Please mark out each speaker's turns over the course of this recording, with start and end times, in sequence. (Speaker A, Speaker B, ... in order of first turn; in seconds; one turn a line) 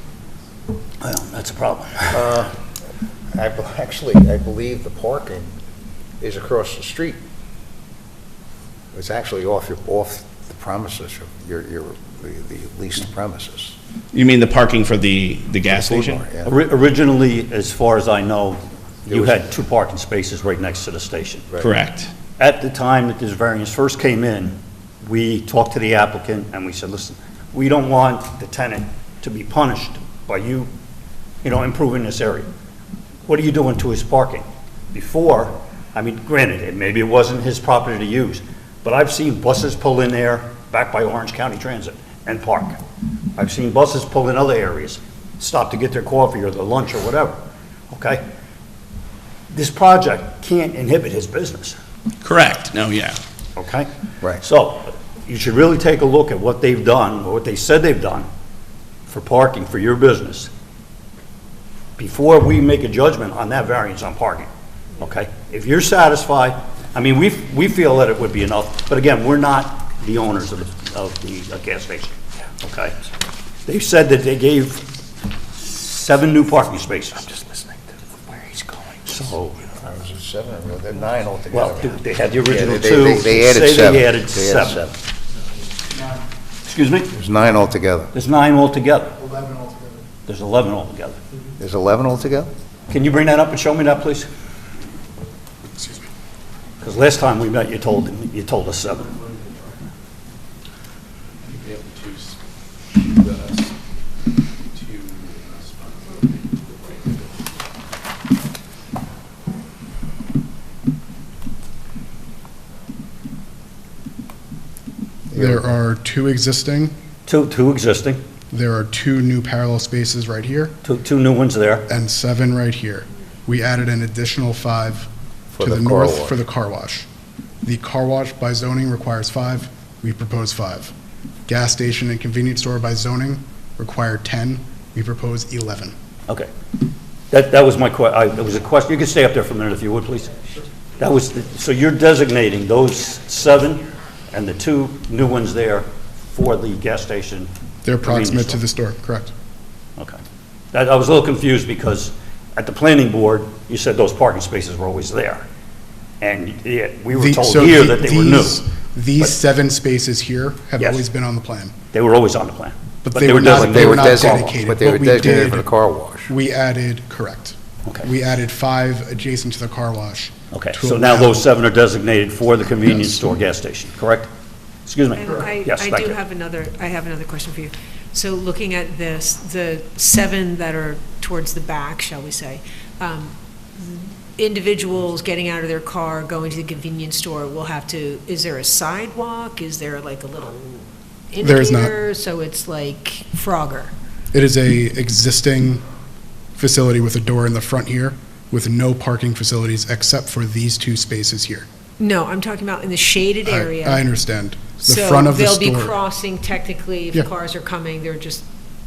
Speaker A: 1.0-2.3
Speaker B: 2.1-2.5
Speaker B: 3.3-5.5
Speaker B: 6.2-7.2
Speaker B: 8.9-13.8
Speaker C: 14.1-16.2
Speaker B: 15.7-16.5
Speaker A: 16.4-21.4
Speaker B: 19.1-19.4
Speaker C: 21.6-22.1
Speaker A: 22.4-30.7
Speaker A: 31.4-32.5
Speaker A: 33.2-42.8
Speaker A: 43.4-47.4
Speaker A: 47.9-48.2
Speaker A: 49.5-51.8
Speaker C: 52.2-53.2
Speaker A: 53.5-58.3
Speaker A: 59.1-60.5
Speaker A: 62.0-73.0
Speaker A: 73.7-74.9
Speaker A: 75.6-77.6
Speaker A: 78.2-79.8
Speaker B: 79.8-84.9
Speaker A: 81.5-84.9
Speaker A: 86.6-87.1
Speaker B: 87.1-88.1
Speaker A: 88.1-89.1
Speaker D: 89.2-90.0
Speaker A: 90.3-91.2
Speaker B: 91.6-92.5
Speaker A: 92.9-94.3
Speaker A: 96.8-99.2
Speaker E: 101.5-102.3
Speaker E: 103.0-103.7
Speaker E: 104.9-106.2
Speaker D: 115.3-116.9
Speaker B: 115.3-115.6
Speaker A: 117.2-118.2
Speaker D: 118.5-120.7
Speaker A: 120.8-121.8
Speaker D: 121.9-125.1
Speaker B: 125.5-126.3
Speaker D: 125.6-127.1
Speaker D: 127.6-130.9
Speaker D: 131.5-135.9
Speaker A: 137.3-140.3
Speaker A: 141.0-147.5
Speaker D: 147.8-149.3
Speaker A: 148.0-148.6
Speaker A: 150.7-155.4
Speaker A: 156.2-158.6
Speaker D: 157.1-161.7
Speaker A: 161.9-164.5
Speaker D: 163.1-165.7
Speaker B: 163.4-166.3
Speaker D: 166.3-171.4
Speaker A: 170.5-174.3
Speaker D: 172.8-173.3
Speaker A: 174.8-176.2
Speaker F: 175.2-193.9
Speaker D: 191.4-191.9
Speaker D: 194.3-195.8
Speaker D: 196.6-201.7
Speaker F: 202.0-204.0
Speaker D: 203.4-205.9
Speaker F: 204.8-208.4